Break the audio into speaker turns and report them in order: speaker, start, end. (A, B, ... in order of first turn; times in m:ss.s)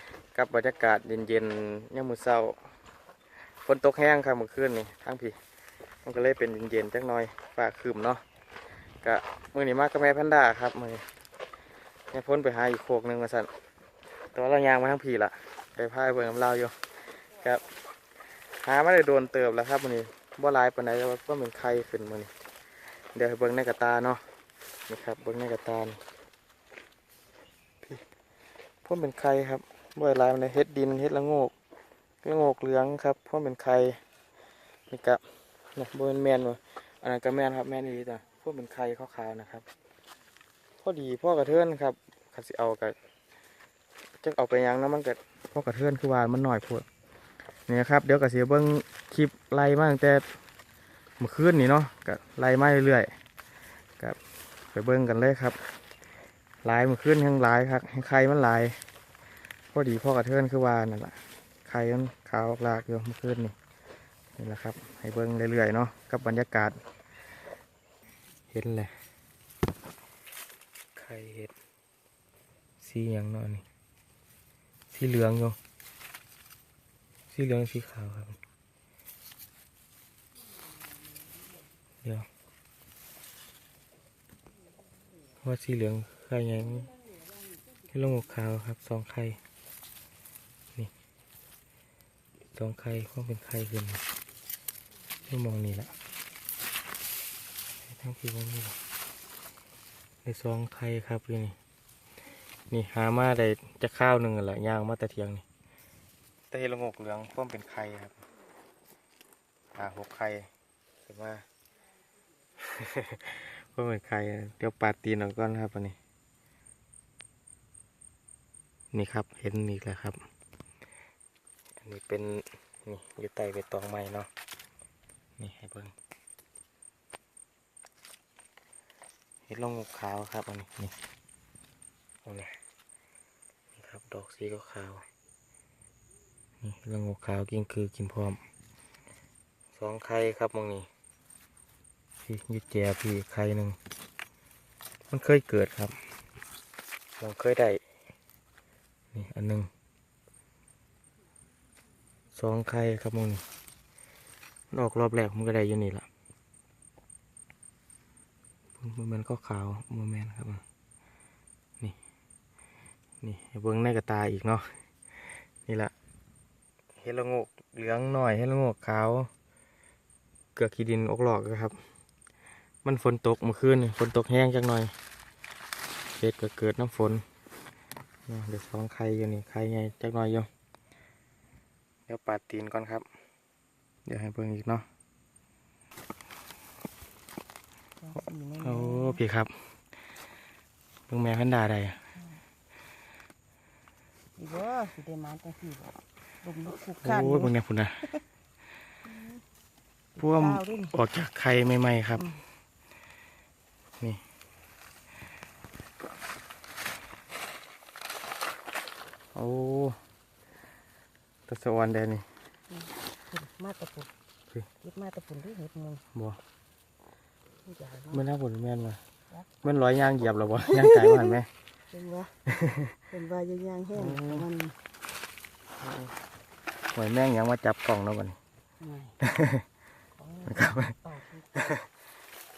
0:00.3-0:02.6 A
0:03.5-0:05.4 A
0:06.0-0:08.2 A
0:09.0-0:11.1 A
0:12.1-0:13.5 A
0:14.3-0:22.3 A
0:23.1-0:24.2 A
0:24.9-0:26.0 A
0:28.8-0:31.5 A
0:32.2-0:34.0 A
0:34.9-0:35.2 A
0:35.8-0:39.7 A
0:40.8-0:43.0 A
0:44.2-0:46.9 A
0:47.7-0:50.3 A
0:51.2-0:53.2 A
0:54.7-0:55.6 A
0:56.6-0:58.8 A
0:59.7-1:03.6 A
1:04.4-1:06.8 A
1:08.5-1:08.9 A
1:11.0-1:11.5 A
1:12.8-1:13.6 A
1:14.9-1:15.6 A
1:17.3-1:18.4 A
1:25.4-1:26.9 A
1:27.9-1:29.4 A
1:32.6-1:34.0 A
1:35.3-1:36.0 A
1:37.9-1:38.8 A
1:40.2-1:41.6 A
1:42.7-1:45.4 A
1:46.5-1:48.2 A
1:49.8-1:50.5 A
1:51.1-1:51.4 A
1:52.6-1:56.0 A
1:58.9-2:00.2 A
2:01.8-2:04.3 A
2:05.4-2:05.9 A
2:09.5-2:11.0 A
2:12.2-2:12.6 A
2:13.8-2:15.0 A
2:16.6-2:18.4 A
2:19.8-2:20.9 A
2:22.2-2:23.8 A
2:25.1-2:26.0 A
2:27.2-2:27.8 A
2:29.1-2:29.7 A
2:32.3-2:33.4 A
2:34.7-2:36.1 A
2:38.8-2:40.6 A
2:43.2-2:44.7 A
2:45.7-2:45.9 A
2:47.0-2:49.3 A
2:50.6-2:51.8 A
2:52.8-2:54.9 A
2:56.2-2:57.2 A
2:58.3-3:00.5 A
3:02.1-3:03.0 A
3:04.1-3:04.9 A
3:08.0-3:09.2 B
3:08.6-3:09.7 A
3:11.1-3:12.0 A
3:12.2-3:12.4 B
3:14.4-3:17.5 B
3:17.0-3:18.0 A
3:19.0-3:19.4 B
3:20.2-3:21.0 B
3:20.2-3:22.3 A
3:22.2-3:22.4 B
3:29.4-3:30.0 A
3:31.5-3:32.3 A
3:32.7-3:34.1 B
3:34.8-3:36.0 B
3:36.1-3:36.4 A
3:37.6-3:38.2 B
3:38.1-3:39.0 A
3:39.3-3:39.7 B
3:39.6-3:41.5 A
3:40.6-3:41.1 B
3:41.9-3:44.8 B
3:42.6-3:43.0 A
3:44.0-3:44.5 A
3:45.8-3:46.1 A
3:46.9-3:48.4 A
3:48.8-3:49.2 B
3:49.2-3:49.6 A
3:50.2-3:51.7 B
3:50.5-3:51.0 A
3:51.6-3:51.8 A